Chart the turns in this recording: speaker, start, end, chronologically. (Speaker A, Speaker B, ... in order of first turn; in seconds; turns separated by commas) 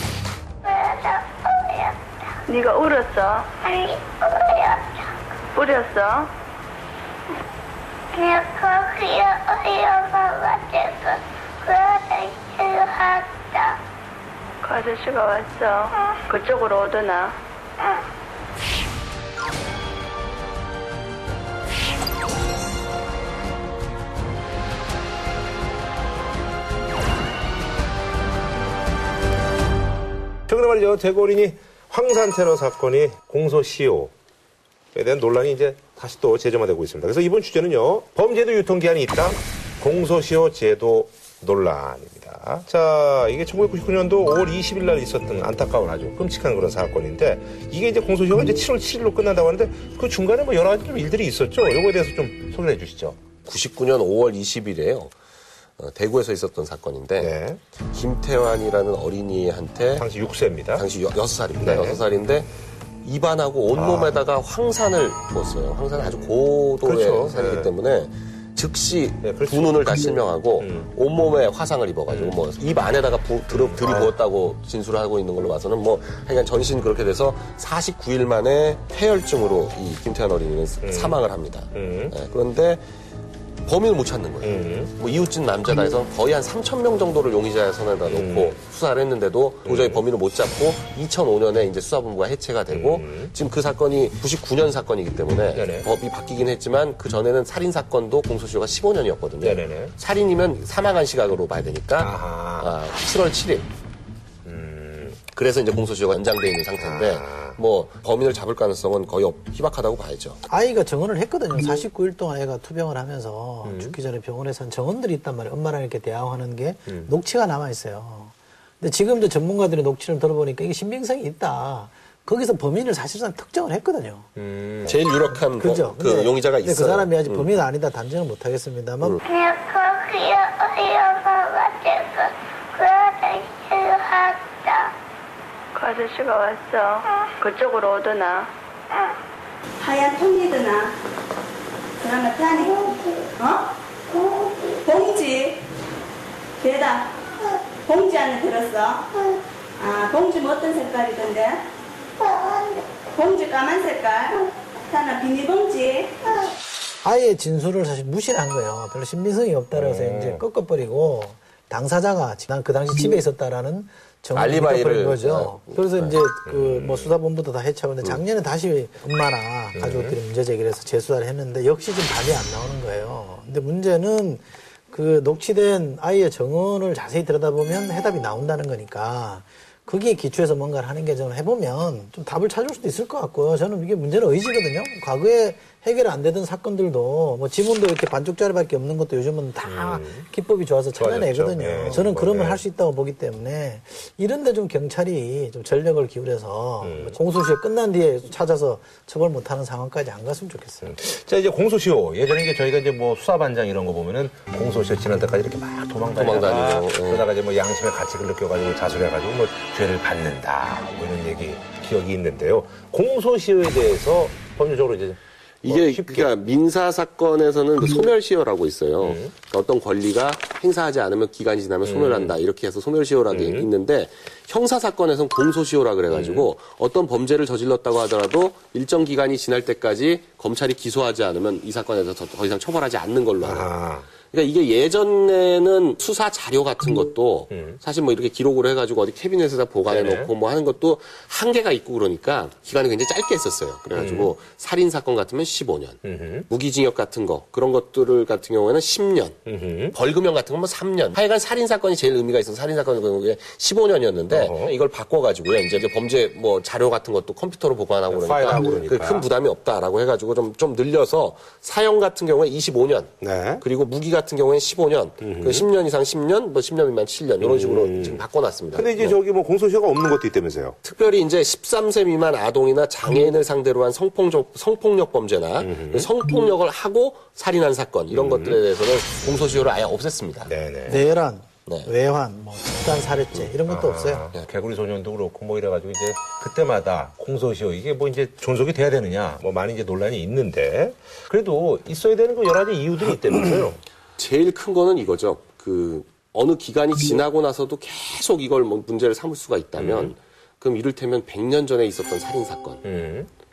Speaker A: 0.6-2.3, Speaker B: 2.5-3.5, Speaker A: 3.6-5.1, Speaker B: 5.5-6.3, Speaker A: 8.1-13.8, Speaker B: 14.6-17.4, Speaker C: 30.5-34.1, Speaker C: 34.9-53.2, Speaker D: 53.4-55.1, Speaker D: 55.8-57.4, Speaker C: 57.2-57.6, Speaker D: 57.9-60.0, Speaker C: 59.9-60.9, Speaker D: 60.7-62.5, Speaker C: 61.6-62.0, Speaker D: 63.0-82.8, Speaker C: 63.7-64.2, Speaker C: 66.8-67.7, Speaker C: 69.2-69.9, Speaker C: 70.6-70.9, Speaker C: 72.1-72.4, Speaker C: 73.5-74.1, Speaker C: 80.8-82.1, Speaker D: 83.6-103.7, Speaker C: 84.4-84.9, Speaker C: 88.1-88.5, Speaker C: 89.6-90.0, Speaker C: 92.7-93.3, Speaker C: 95.5-95.9, Speaker C: 99.4-99.9, Speaker C: 102.0-102.7, Speaker C: 104.4-105.2, Speaker D: 105.3-110.4, Speaker C: 106.8-107.6, Speaker E: 110.5-124.3, Speaker C: 113.6-114.0, Speaker C: 124.3-125.0, Speaker D: 124.8-127.5, Speaker E: 125.3-129.2, Speaker A: 129.2-134.9, Speaker B: 135.7-138.5, Speaker F: 139.8-140.9, Speaker F: 142.0-143.7, Speaker F: 144.8-145.6, Speaker F: 146.6-147.1, Speaker F: 147.8-149.1, Speaker F: 149.8-151.7, Speaker A: 152.2-152.8, Speaker F: 153.1-156.3, Speaker E: 157.0-200.9, Speaker C: 159.7-160.4, Speaker D: 164.3-166.0, Speaker C: 166.4-167.1, Speaker C: 169.7-170.2, Speaker C: 189.6-190.3, Speaker C: 191.0-192.6, Speaker C: 196.8-197.2, Speaker C: 200.8-216.3, Speaker D: 206.2-207.2, Speaker D: 215.6-233.7, Speaker C: 219.0-219.3, Speaker C: 221.8-222.3, Speaker C: 223.3-223.7, Speaker C: 226.1-226.5, Speaker C: 233.4-234.1, Speaker D: 234.3-249.4, Speaker C: 237.5-237.8, Speaker C: 239.9-240.3, Speaker C: 243.9-244.3, Speaker C: 246.0-246.5, Speaker C: 249.4-249.9, Speaker D: 249.9-269.2, Speaker C: 254.3-254.7, Speaker C: 258.1-259.3, Speaker C: 263.2-263.6, Speaker C: 265.2-265.7, Speaker C: 267.4-270.8, Speaker D: 270.8-280.5, Speaker C: 275.6-276.1, Speaker C: 278.1-278.6, Speaker C: 279.2-279.7, Speaker C: 280.4-281.1, Speaker E: 280.9-284.3, Speaker D: 281.6-281.9, Speaker C: 283.6-293.8, Speaker D: 294.2-302.8, Speaker C: 299.8-300.1, Speaker C: 302.8-303.3